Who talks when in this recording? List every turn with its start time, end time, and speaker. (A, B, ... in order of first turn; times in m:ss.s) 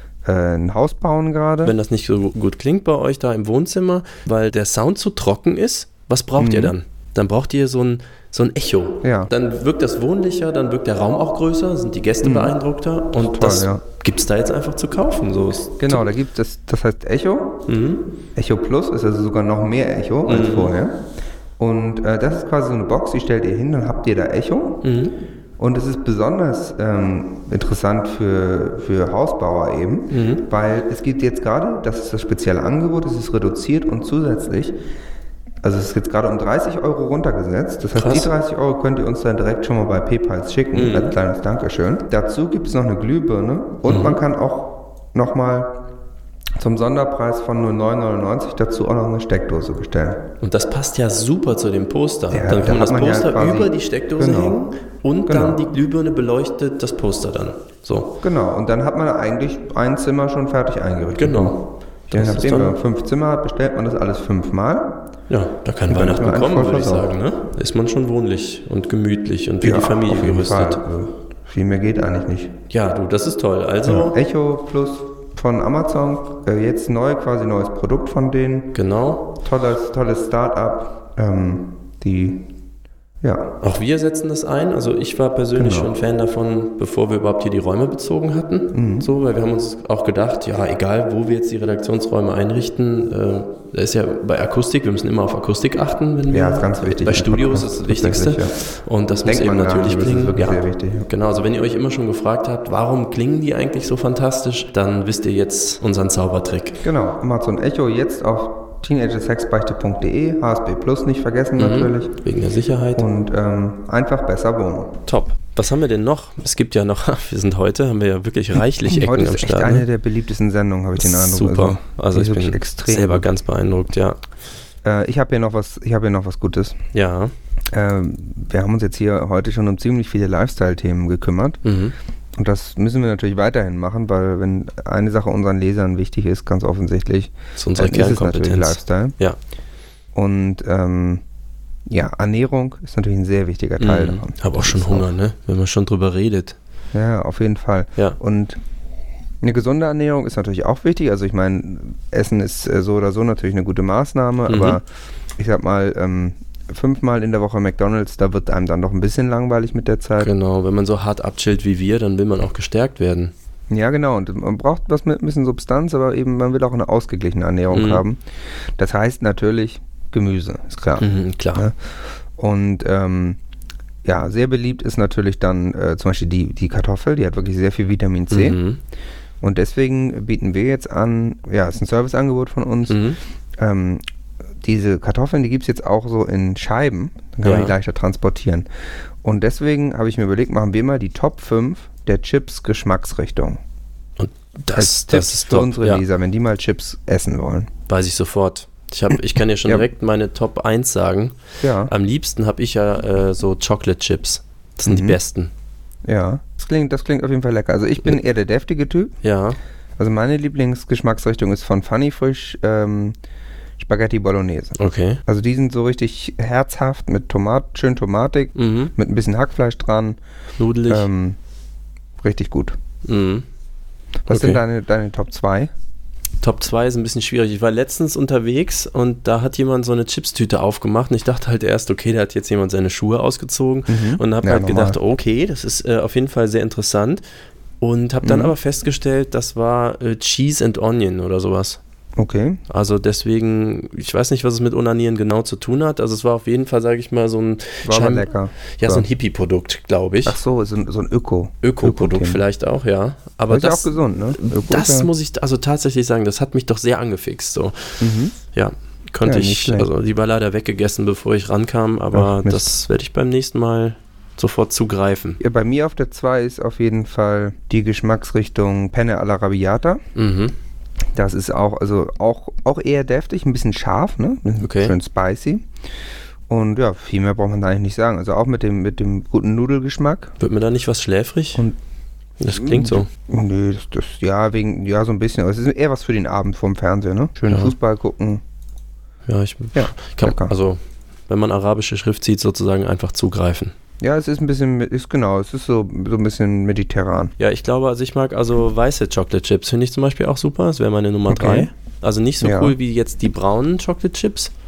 0:00.2-0:01.7 A
0:01.6-0:16.0 B
0:06.4-0:06.8 A
0:09.0-0:09.3 A
0:12.2-0:12.6 A
0:13.2-0:13.8 A
0:15.8-0:17.6 A
0:17.7-0:18.0 B
0:18.4-0:21.0 A
0:20.3-0:20.7 B
0:21.6-0:24.8 A
0:24.8-0:25.2 B
0:25.6-0:34.8 A
0:30.1-0:30.4 B
0:35.6-0:45.8 A
0:38.0-0:38.3 B
0:40.7-0:41.2 B
0:43.9-0:44.2 B
0:46.6-0:50.2 A
0:50.4-0:58.1 B
0:52.3-0:54.6 A
0:55.3-0:55.6 A
0:58.2-1:01.6 A
1:01.2-1:02.8 B
1:02.1-1:04.9 A
1:05.3-1:10.8 B
1:05.9-1:07.1 A
1:09.6-1:12.5 A
1:12.7-1:14.2 B
1:13.9-1:18.7 A
1:18.7-1:19.3 B
1:19.4-1:22.4 A
1:23.2-1:23.5 A
1:23.6-1:46.8 B
1:25.6-1:25.9 A
1:28.7-1:29.1 A
1:36.3-1:38.6 A
1:39.3-1:41.1 A
1:46.8-1:52.1 A
1:51.6-1:53.1 B
1:53.0-1:54.9 A
1:55.1-1:59.8 B
1:58.9-2:03.3 A
2:01.0-2:04.2 B
2:04.8-2:06.8 A
2:06.9-2:07.3 B
2:07.7-2:11.6 A
2:11.6-2:12.0 B
2:12.4-2:19.2 A
2:17.6-2:19.4 B
2:20.2-2:21.2 A
2:21.9-2:25.1 A
2:23.8-2:26.6 B
2:26.9-2:28.6 A
2:29.4-2:34.8 A
2:34.5-2:34.8 B
2:35.4-2:40.3 A
2:40.2-2:43.3 B
2:43.7-2:48.2 A
2:47.7-2:48.0 B
2:48.8-2:51.8 A
2:51.0-2:51.7 B
2:52.4-2:53.4 A
2:54.0-2:58.6 A
2:58.3-2:58.8 B
2:59.4-3:04.0 A
3:02.9-3:03.2 B
3:04.6-3:08.7 A
3:07.4-3:07.7 B
3:09.2-3:13.6 A
3:14.2-3:16.0 B
3:14.7-3:17.7 A
3:17.9-3:25.5 B
3:21.6-3:21.9 A
3:24.8-3:25.2 A
3:26.0-3:29.2 A
3:29.2-3:29.6 B
3:30.0-3:33.2 A
3:33.8-3:40.2 A
3:34.8-3:35.2 B
3:38.6-3:38.9 B
3:40.6-3:41.1 B
3:40.9-3:41.4 A
3:42.2-3:42.8 A
3:43.0-3:43.4 B
3:44.3-3:45.7 A
3:44.3-3:44.6 B
3:46.4-3:57.2 B
3:53.9-3:55.0 A
3:57.8-4:01.8 B
3:58.2-3:58.5 A
4:02.2-4:02.6 A
4:02.7-4:10.4 B
4:07.8-4:09.1 A
4:10.2-4:12.4 A
4:11.6-4:17.9 B
4:13.5-4:15.1 A
4:18.0-4:18.4 A
4:18.5-4:25.4 B
4:19.2-4:19.9 A
4:22.1-4:22.7 A
4:25.4-4:30.0 A
4:30.2-4:30.5 B
4:31.1-4:35.7 A
4:34.6-4:35.0 B
4:36.5-4:40.3 A
4:40.4-4:41.6 B
4:42.4-4:43.1 B
4:42.5-4:48.4 A
4:49.3-4:53.8 B
4:49.8-4:50.5 A
4:54.0-4:57.3 A
4:57.4-5:04.5 B
5:01.3-5:01.7 A
5:02.4-5:02.8 A